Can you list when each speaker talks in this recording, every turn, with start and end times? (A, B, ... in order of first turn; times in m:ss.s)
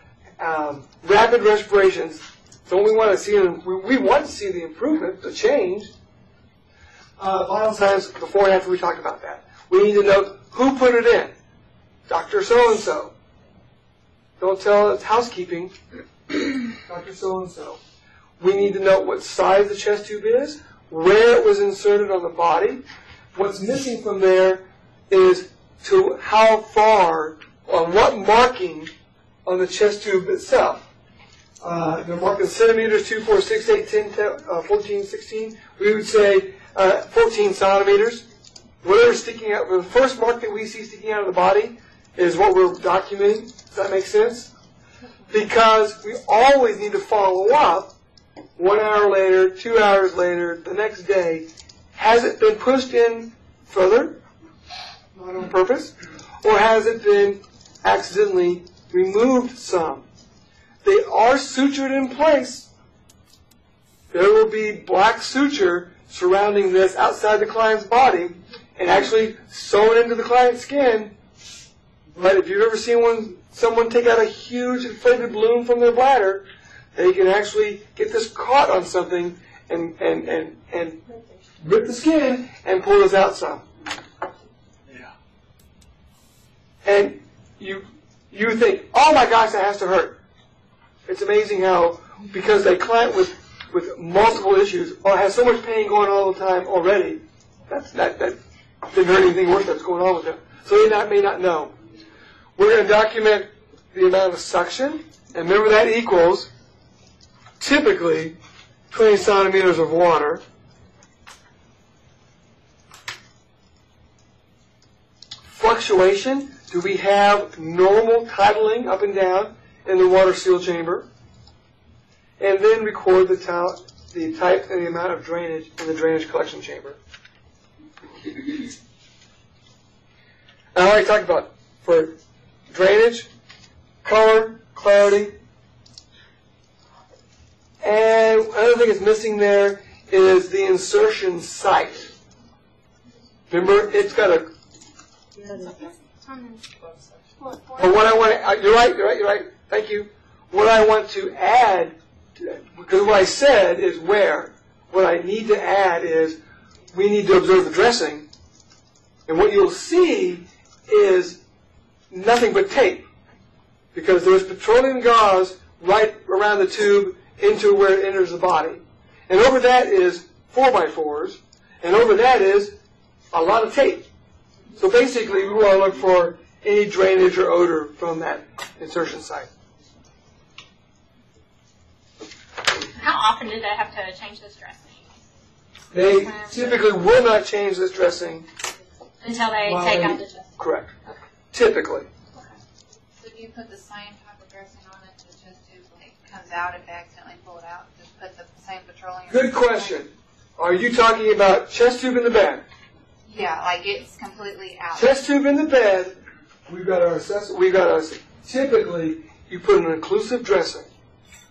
0:00.4-0:05.9 A
0:07.2-0:11.3 A
0:12.1-0:13.1 A
0:14.4-0:15.8 A
0:16.3-0:17.8 A
0:18.4-0:22.8 A
0:23.3-0:28.9 A
0:29.4-0:30.9 A
0:31.6-0:38.2 A
0:38.8-0:44.5 A
0:45.3-0:47.9 A
0:48.6-0:54.2 A
0:55.1-1:00.0 A
1:00.8-1:02.7 A
1:04.1-1:11.1 A
1:12.1-1:21.0 A
1:21.6-1:23.6 A
1:26.8-1:30.2 A
1:31.0-1:38.4 A
1:38.9-1:41.7 A
1:42.6-1:46.5 A
1:47.6-1:48.3 A
1:48.9-1:50.4 A
1:55.5-2:01.1 A
2:02.4-2:07.0 A
2:10.7-2:12.2 A
2:12.7-2:13.3 A
2:14.0-2:15.4 A
2:17.8-2:22.1 A
2:23.5-2:24.4 A
2:26.2-2:28.0 B
2:27.8-2:36.4 A
2:36.9-2:38.2 A
2:39.3-2:41.4 A
2:42.1-2:43.0 A
2:43.9-2:52.7 A
2:53.3-2:54.1 A
2:54.8-2:59.5 A
3:02.9-3:05.0 B
3:05.9-3:08.4 A
3:06.0-3:06.8 B
3:09.2-3:10.4 B
3:09.6-3:12.1 A
3:13.2-3:20.0 C
3:19.3-3:22.6 A
3:23.3-3:25.1 C
3:24.9-3:26.2 A
3:26.7-3:30.8 A